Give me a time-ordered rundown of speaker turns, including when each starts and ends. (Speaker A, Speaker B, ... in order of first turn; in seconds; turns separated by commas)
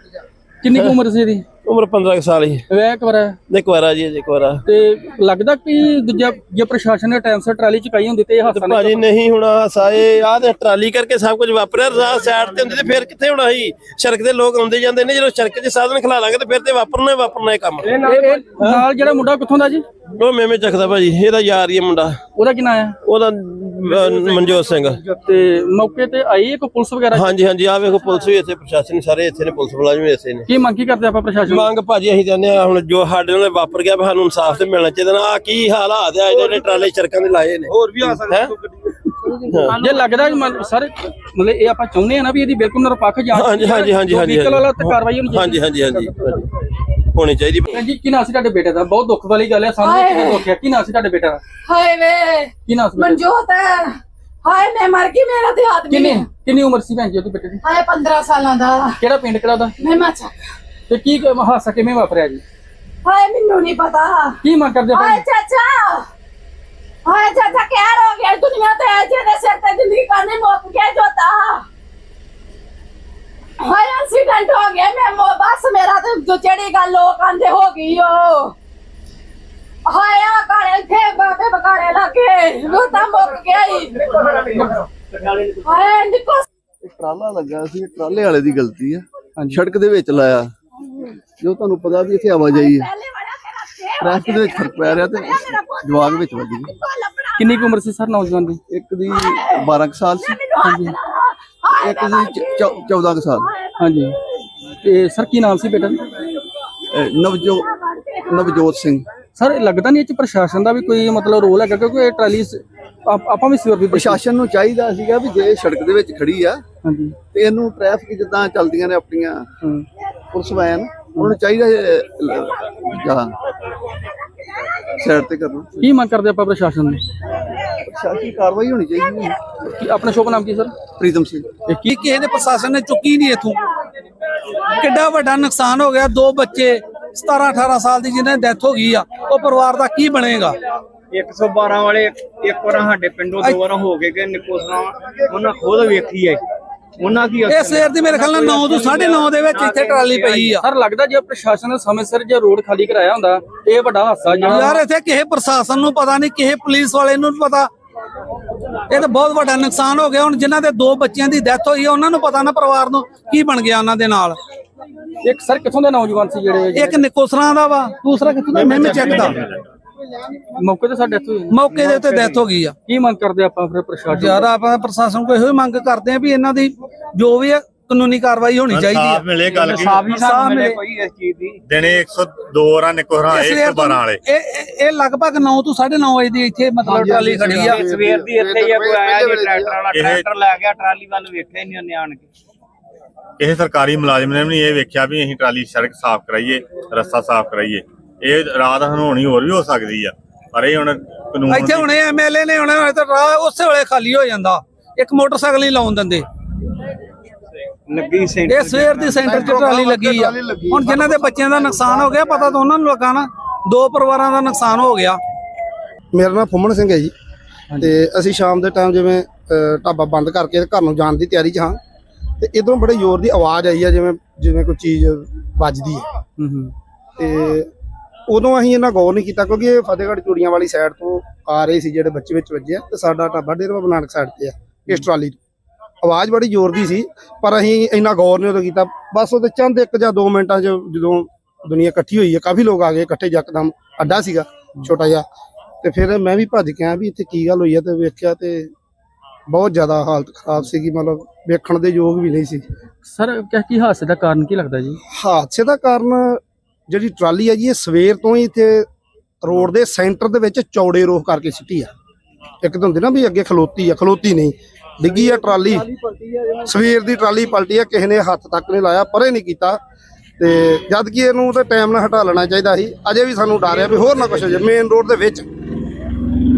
Speaker A: 0.6-1.4, Speaker B: 1.6-2.6, Speaker A: 2.7-3.4, Speaker B: 3.5-4.6, Speaker A: 4.7-9.0, Speaker B: 8.5-18.8, Speaker A: 18.0-19.9, Speaker B: 20.2-22.2, Speaker A: 22.4-23.0, Speaker B: 23.1-25.1, Speaker A: 25.2-27.4, Speaker B: 27.1-30.4, Speaker A: 30.5-31.7, Speaker B: 31.5-38.5, Speaker B: 39.4-39.9, Speaker A: 39.7-45.6, Speaker B: 43.3-46.5, Speaker B: 47.1-47.7, Speaker A: 47.7-51.4, Speaker C: 49.8-50.5, Speaker C: 51.6-56.3, Speaker A: 52.7-53.2, Speaker A: 55.9-57.6, Speaker C: 57.6-59.0, Speaker A: 59.0-59.8, Speaker C: 59.8-60.4, Speaker A: 60.9-62.4, Speaker C: 63.0-66.1, Speaker A: 64.4-65.2, Speaker C: 67.0-71.7, Speaker C: 73.6-78.5, Speaker C: 79.9-84.8, Speaker C: 85.6-86.5, Speaker D: 86.8-90.5, Speaker A: 89.4-89.6, Speaker D: 91.4-92.9, Speaker C: 92.4-97.5, Speaker D: 94.0-96.7, Speaker A: 97.4-98.6, Speaker D: 98.7-100.4, Speaker C: 99.1-102.9, Speaker A: 100.6-101.0, Speaker D: 101.8-103.5, Speaker C: 103.4-103.8, Speaker A: 103.8-104.2, Speaker A: 104.8-106.0, Speaker D: 106.9-107.7, Speaker C: 107.7-108.5, Speaker D: 108.3-109.1, Speaker A: 109.4-114.2, Speaker D: 113.9-116.6, Speaker A: 116.8-117.2, Speaker D: 117.3-119.5, Speaker D: 120.3-123.3, Speaker D: 125.0-125.7, Speaker A: 125.8-127.0, Speaker D: 127.8-129.4, Speaker A: 129.6-130.8, Speaker D: 131.0-131.5, Speaker E: 131.9-133.6, Speaker E: 134.8-140.6, Speaker F: 141.1-146.4, Speaker F: 147.0-150.5, Speaker E: 147.5-150.6, Speaker A: 150.6-154.8, Speaker E: 154.4-157.7, Speaker E: 158.9-164.4, Speaker A: 165.2-167.0, Speaker E: 166.8-169.4, Speaker A: 168.1-169.3, Speaker G: 168.5-169.6, Speaker A: 170.6-171.6, Speaker E: 171.6-172.8, Speaker F: 171.6-172.4, Speaker A: 172.8-174.5, Speaker E: 174.1-179.2, Speaker G: 178.7-180.2, Speaker F: 179.4-181.6, Speaker E: 180.2-180.7, Speaker G: 181.7-184.2, Speaker E: 183.3-187.7, Speaker F: 186.8-192.3, Speaker H: 186.9-189.8, Speaker G: 189.9-190.2, Speaker G: 193.4-201.9, Speaker E: 201.5-206.3, Speaker F: 207.9-209.6, Speaker E: 208.5-215.2, Speaker H: 209.2-210.9, Speaker H: 216.1-217.1, Speaker A: 217.7-218.0, Speaker H: 217.8-221.8, Speaker H: 222.4-226.1, Speaker A: 226.4-226.7, Speaker H: 227.2-227.7, Speaker H: 228.3-235.4, Speaker H: 236.0-245.3, Speaker H: 245.8-248.7, Speaker H: 249.5-252.6, Speaker A: 253.0-255.0, Speaker H: 255.1-258.9, Speaker H: 259.4-261.9, Speaker H: 262.6-265.9, Speaker D: 265.0-266.8, Speaker H: 266.7-269.8, Speaker H: 270.4-275.5